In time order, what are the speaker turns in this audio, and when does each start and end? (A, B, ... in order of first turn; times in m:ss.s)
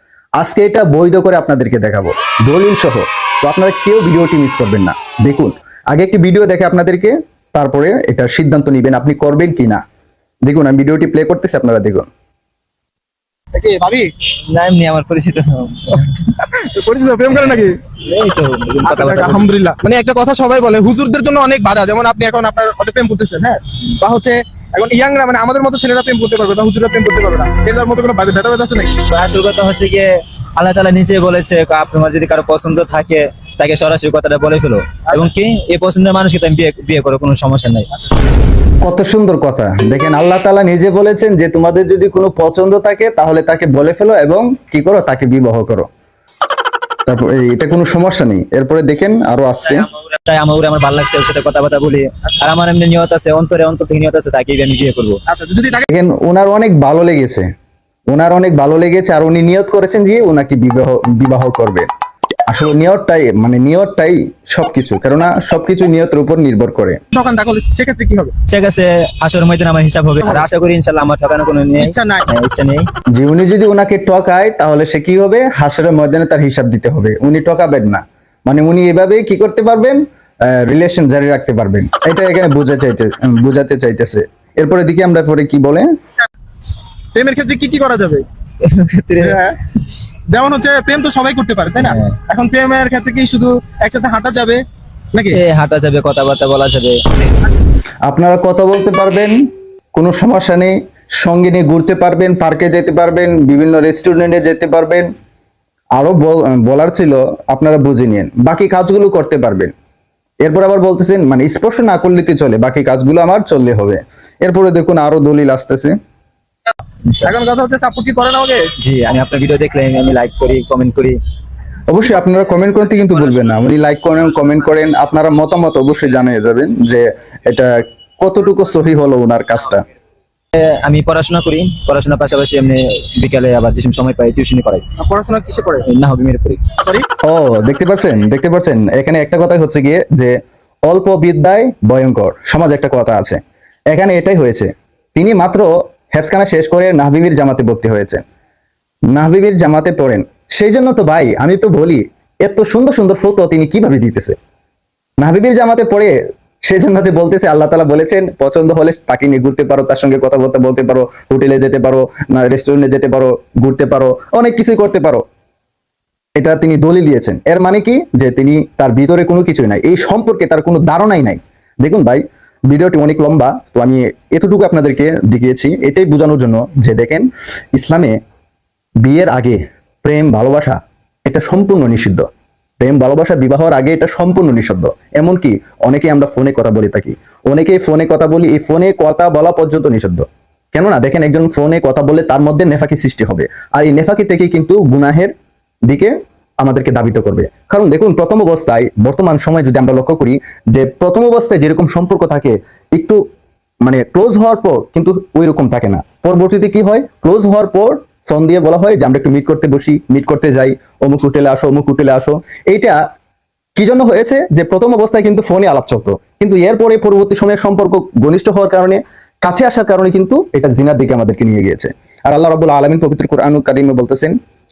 0:00.4-0:09.8 A
0:10.4-0:12.1 A
0:13.5-0:14.1 B
0:14.5-0:16.6 C
0:16.5-0:17.8 B
0:17.3-0:19.5 C
0:18.8-0:29.0 B
0:29.1-0:37.9 C
0:38.8-0:45.9 A
0:47.0-0:49.9 A
0:49.9-0:55.2 C
0:55.3-0:55.8 B
0:55.8-0:57.5 A
0:58.1-1:01.9 A
1:02.5-1:07.0 A
1:07.1-1:08.4 B
1:08.4-1:12.9 C
1:11.8-1:12.3 B
1:13.1-1:25.9 A
1:27.1-1:28.2 B
1:28.6-1:29.5 C
1:29.2-1:29.6 B
1:30.3-1:34.6 B
1:31.8-1:32.1 C
1:35.1-1:35.4 B
1:35.3-1:37.0 C
1:38.1-1:39.4 A
1:39.9-1:45.1 A
1:46.0-1:49.7 A
1:50.4-1:56.0 A
1:57.1-1:57.4 C
1:57.2-1:58.7 B
1:58.8-2:01.2 C
2:01.9-2:09.8 A
2:10.5-2:14.8 C
2:15.0-2:15.8 B
2:15.8-2:16.6 C
2:17.2-2:28.2 A
2:29.1-2:34.4 A
2:35.2-2:45.2 A
2:46.4-2:58.2 A
2:59.0-3:02.2 A
3:02.8-3:15.3 A
3:15.9-3:23.2 A
3:23.8-3:33.0 A
3:33.8-3:44.3 A